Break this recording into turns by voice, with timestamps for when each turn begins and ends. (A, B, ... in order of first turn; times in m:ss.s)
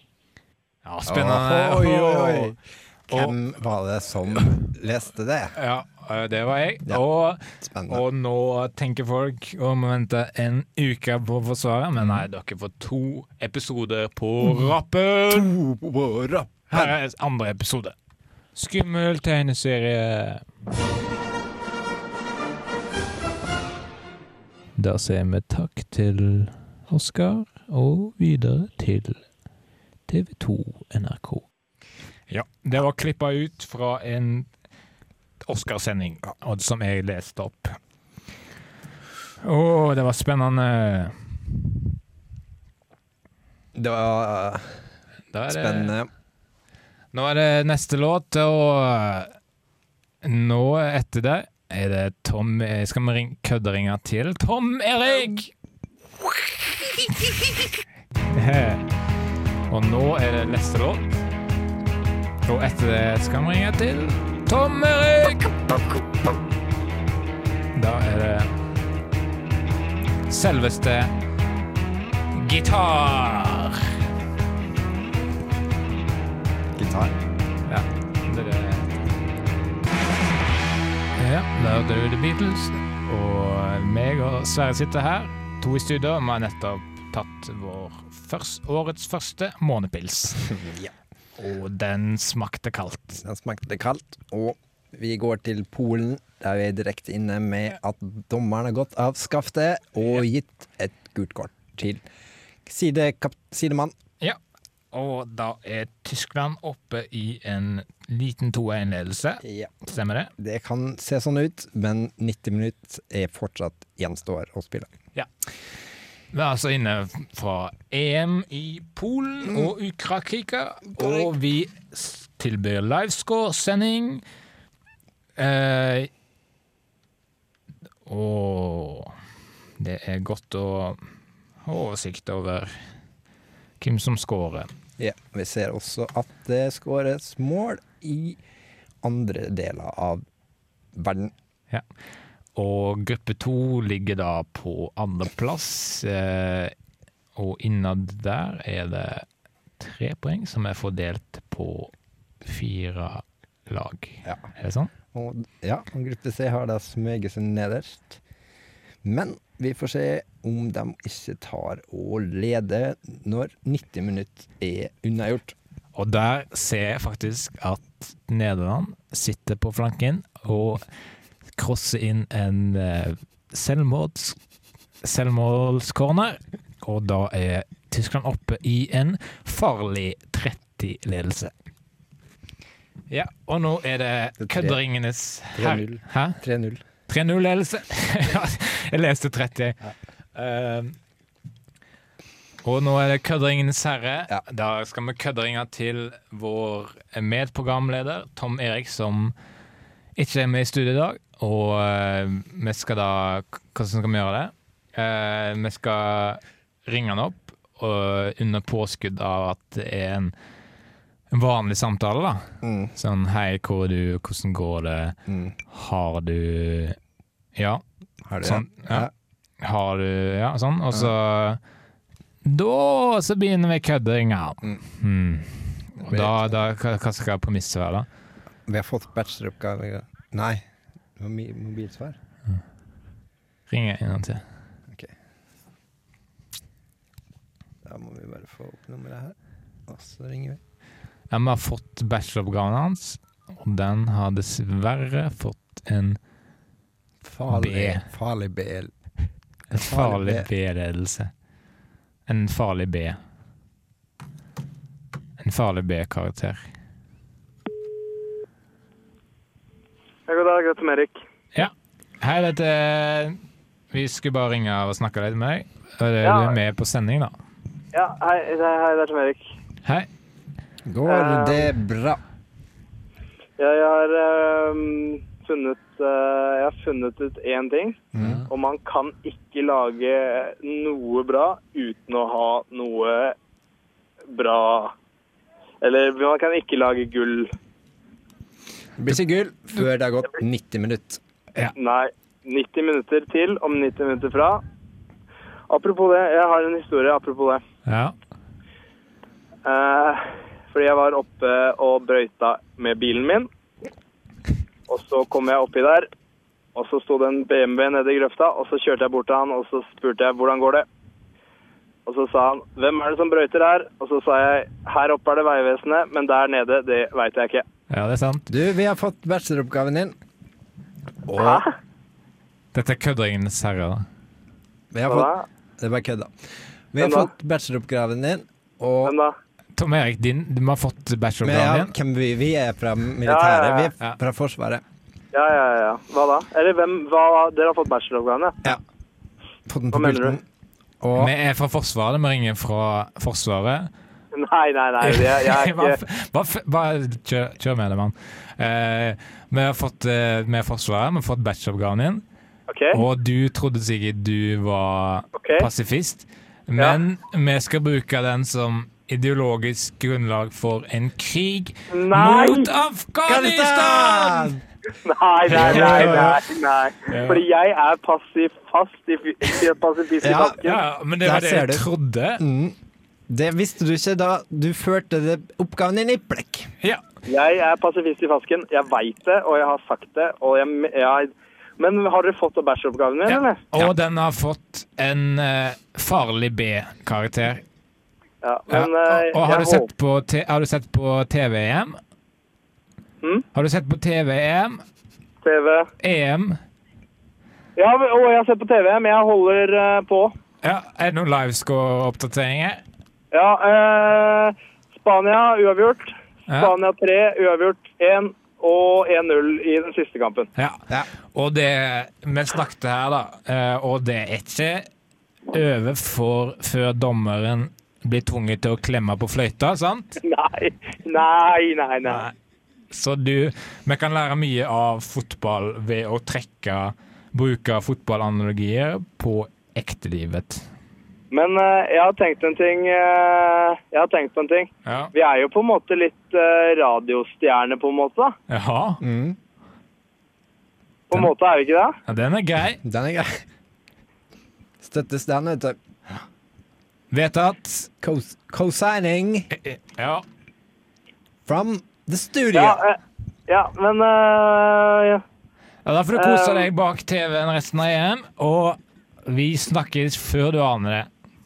0:00.8-0:02.6 A
0:01.0-0:05.5 B
0:03.1-0:03.4 A
0:05.6-0:15.5 A
0:07.6-0:08.0 B
0:12.0-0:12.3 B
0:14.4-0:14.7 B
0:15.3-0:16.9 B
0:16.7-0:17.9 A
0:18.5-0:20.4 A
0:24.8-0:29.2 A
0:30.1-0:31.4 A
0:32.3-0:34.5 A
0:35.4-0:37.8 A
0:39.4-0:41.7 A
0:43.7-0:44.9 B
0:45.3-0:45.9 A
0:45.5-0:46.1 B
0:47.1-0:49.3 A
0:50.2-0:55.5 A
0:56.2-0:58.9 A
0:59.7-1:01.2 A
1:02.4-1:05.8 A
1:07.7-1:08.5 A
1:10.3-1:11.1 A
1:12.3-1:13.9 A
1:16.8-1:17.1 B
1:17.7-1:18.9 A
1:21.2-1:30.6 A
1:30.5-1:30.9 B
1:31.4-1:33.2 A
1:33.2-1:42.0 B
1:42.6-1:43.9 B
1:44.9-1:50.3 A
1:49.4-1:49.7 B
1:50.4-1:54.9 B
1:56.3-2:04.2 A
2:01.0-2:01.3 B
2:05.4-2:06.1 A
2:08.0-2:09.1 A
2:09.8-2:11.0 A
2:11.6-2:12.8 A
2:13.8-2:14.7 A
2:15.0-2:18.4 B
2:19.0-2:20.2 B
2:20.9-2:21.3 B
2:22.6-2:26.7 A
2:27.4-2:29.3 A
2:29.8-2:34.9 A
2:35.1-2:38.2 B
2:39.0-2:45.5 B
2:45.9-2:50.8 A
2:51.5-2:54.4 A
2:55.0-3:01.5 A
3:03.1-3:06.4 A
3:04.4-3:04.8 B
3:05.5-3:06.8 B
3:07.1-3:09.8 A
3:10.3-3:11.0 A
3:12.6-3:19.3 A
3:20.2-3:30.3 A
3:31.3-3:37.0 A
3:32.6-3:32.9 B
3:35.3-3:35.5 B
3:37.6-3:37.8 A
3:38.2-3:39.1 B
3:38.4-3:39.1 A
3:39.6-3:41.6 A
3:42.4-3:48.1 A
3:46.0-3:46.5 B
3:48.7-3:50.6 B
3:51.2-3:52.2 B
3:53.7-3:54.4 A
3:57.8-3:59.4 B
3:59.9-4:00.6 B
4:01.3-4:06.2 A
4:07.2-4:08.9 B
4:07.5-4:08.1 A
4:09.7-4:10.5 B
4:09.7-4:11.3 A
4:12.3-4:13.2 A
4:15.4-4:16.6 A
4:20.3-4:21.2 C
4:21.5-4:27.4 A
4:26.2-4:26.6 C
4:27.9-4:29.4 C
4:30.9-4:32.2 B
4:31.1-4:31.7 C
4:33.6-4:43.4 C
4:38.1-4:38.4 B
4:38.2-4:38.5 A
4:44.3-4:44.9 C
4:45.8-4:47.5 C
4:49.0-4:51.2 B
4:51.8-4:54.6 C
4:55.7-4:57.6 C
4:57.9-4:58.1 A
4:59.6-5:03.5 C
5:04.9-5:06.1 C
5:06.7-5:10.8 C
5:12.0-5:17.6 C
5:17.9-5:18.5 A
5:18.5-5:20.2 B
5:21.2-5:21.6 B
5:21.4-5:21.7 C
5:22.7-5:24.0 A
5:24.9-5:29.1 B
5:25.1-5:25.4 C
5:27.0-5:27.3 C
5:29.0-5:29.3 C
5:29.8-5:31.9 A
5:31.4-5:34.8 B
5:33.2-5:33.9 C
5:35.3-5:38.7 C
5:39.7-5:40.4 B
5:39.9-5:40.4 C
5:41.0-5:41.3 B
5:41.2-5:43.9 A
5:44.3-5:46.0 C
5:45.0-5:52.2 A
5:52.7-5:53.0 C
5:52.9-6:04.6 A
5:55.4-5:55.7 C
6:01.9-6:02.7 C
6:03.2-6:04.6 B
6:05.0-6:10.8 C
6:05.5-6:06.5 A
6:05.5-6:06.3 B
6:07.0-6:07.4 A
6:10.2-6:10.6 B
6:10.5-6:12.4 A
6:11.2-6:11.9 B
6:12.4-6:12.8 B
6:13.3-6:16.7 B
6:17.3-6:23.6 C
6:23.2-6:27.6 A
6:28.4-6:29.9 C
6:28.7-6:32.0 A
6:33.5-6:34.8 A
6:35.4-6:35.9 C
6:36.0-6:36.6 A
6:37.8-6:40.3 C
6:40.6-6:42.8 A
6:43.3-6:50.5 C
6:46.5-6:46.7 A
6:50.6-6:54.9 A
6:55.5-7:00.2 A
7:00.2-7:02.2 C
7:02.0-7:02.3 A
7:02.9-7:10.7 A
7:11.3-7:18.3 C
7:14.8-7:15.1 A
7:18.5-7:19.0 A
7:19.0-7:19.4 B
7:21.1-7:22.0 C
7:22.0-7:22.8 A
7:22.8-7:23.4 B
7:24.8-7:25.8 B
7:27.1-7:27.9 A
7:28.0-7:29.5 B
7:29.5-7:30.2 A
7:31.4-7:32.8 B
7:32.5-7:35.2 C
7:35.8-7:41.1 A
7:36.2-7:36.7 C